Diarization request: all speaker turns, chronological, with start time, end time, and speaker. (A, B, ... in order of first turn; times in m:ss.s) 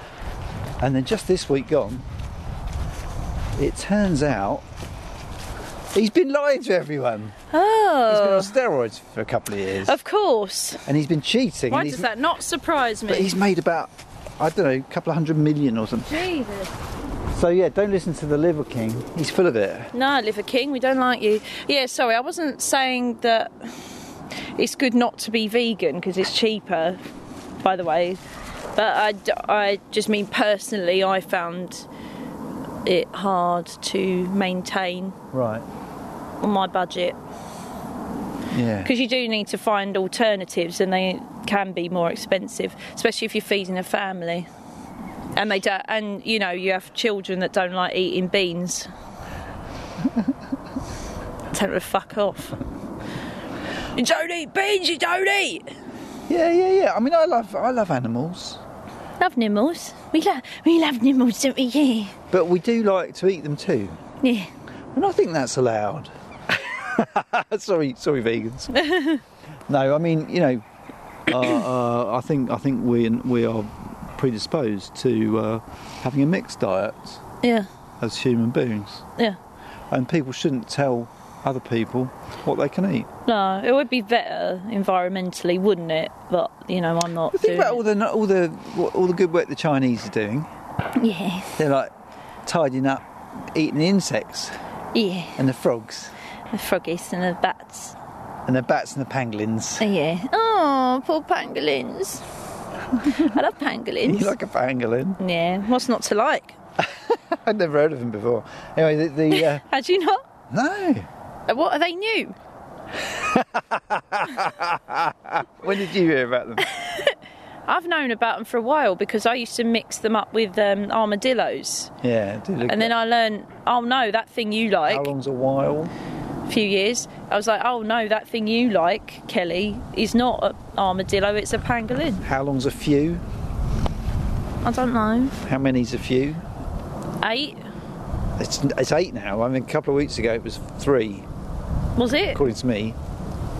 0:00.8-0:02.1 A
0:03.6-0:04.6 A
0:05.9-0:07.4 A
0:07.5-0:08.6 B
0:08.1-0:10.0 A
0:09.8-0:10.9 B
0:10.9-0:12.1 A
0:11.7-0:13.3 B
0:13.1-0:16.2 A
0:16.1-0:16.7 B
0:17.3-0:19.9 A
0:19.9-0:23.8 B
0:24.6-0:27.0 B
0:27.6-0:28.2 B
0:28.8-0:31.9 B
0:32.8-0:35.2 B
0:35.3-0:35.6 A
0:36.4-0:37.2 B
0:38.5-0:38.9 A
0:38.8-0:44.5 B
0:45.4-0:48.9 B
0:51.5-0:52.6 B
0:54.0-0:55.6 B
0:56.3-0:58.6 A
0:59.2-1:02.2 B
1:02.3-1:04.0 A
1:04.2-1:04.5 B
1:04.9-1:08.7 A
1:08.7-1:09.2 B
1:09.7-1:10.6 A
1:11.3-1:17.2 A
1:17.4-1:17.7 B
1:18.0-1:19.1 A
1:19.9-1:23.1 A
1:23.2-1:27.8 B
1:27.3-1:30.5 A
1:30.9-1:31.6 B
1:31.6-1:31.9 A
1:32.4-1:34.6 A
1:34.9-1:35.4 B
1:35.4-1:36.1 A
1:36.5-1:38.0 B
1:38.5-1:39.9 A
1:39.8-1:42.2 B
1:43.0-1:43.3 A
1:43.0-1:44.3 B
1:44.0-1:45.2 A
1:45.2-1:46.6 B
1:46.8-1:49.6 A
1:49.3-1:50.2 B
1:50.5-1:51.1 A
1:51.5-1:52.4 B
1:53.0-1:56.7 A
1:56.6-1:57.2 B
1:57.7-2:01.9 B
2:02.0-2:02.9 A
2:02.6-2:05.1 B
2:04.9-2:05.9 A
2:06.5-2:12.2 B
2:12.2-2:13.2 A
2:14.6-2:15.4 B
2:15.4-2:16.5 A
2:17.2-2:17.6 B
2:18.4-2:21.3 A
2:22.0-2:22.4 B
2:22.3-2:23.0 A